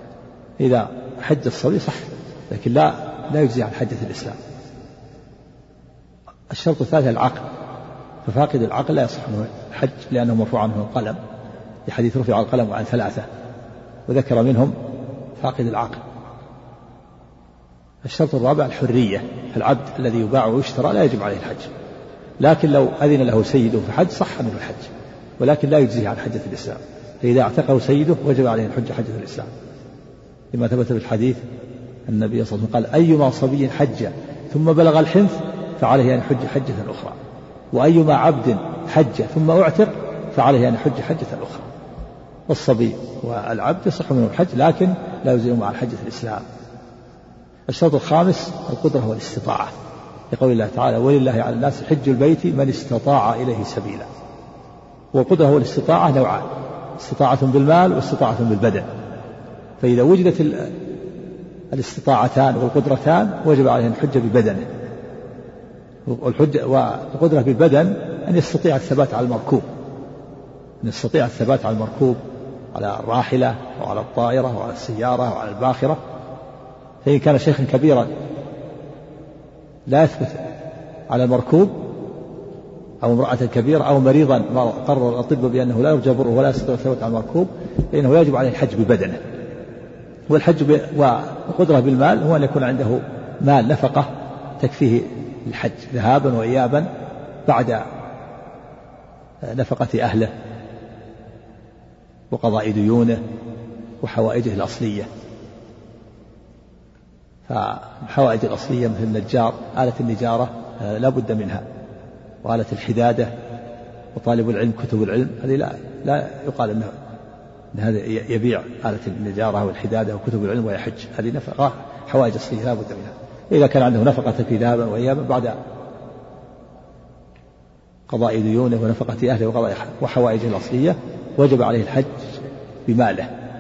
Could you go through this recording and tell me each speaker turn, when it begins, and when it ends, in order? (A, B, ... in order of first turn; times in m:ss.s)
0:00.6-0:04.4 A
0:06.5-0:07.5 A
0:08.2-0:11.2 A
0:11.9-0:13.3 A
0:14.1-0:14.8 A
0:15.4-0:16.0 A
0:18.0-0:21.7 A
0:22.4-0:29.5 A
0:30.5-0:31.4 A
0:32.1-0:37.2 A
0:37.7-0:41.7 A
0:42.5-0:46.4 A
0:47.7-0:49.7 A
0:50.3-0:54.1 A
0:55.1-0:56.5 A
0:57.0-0:58.9 A
0:59.8-1:00.8 A
1:01.7-1:04.7 A
1:06.1-1:09.7 A
1:10.8-1:12.2 A
1:12.7-1:16.0 A
1:17.0-1:18.1 A
1:19.9-1:20.4 A
1:21.1-1:21.9 A
1:23.0-1:29.2 A
1:30.3-1:36.9 A
1:37.5-1:37.8 A
1:39.4-1:40.3 A
1:42.3-1:43.2 A
1:44.0-1:45.1 A
1:47.5-1:51.6 A
1:52.4-1:53.3 A
1:54.2-1:56.9 A
1:57.7-2:05.6 A
2:08.1-2:12.3 A
2:12.9-2:13.3 A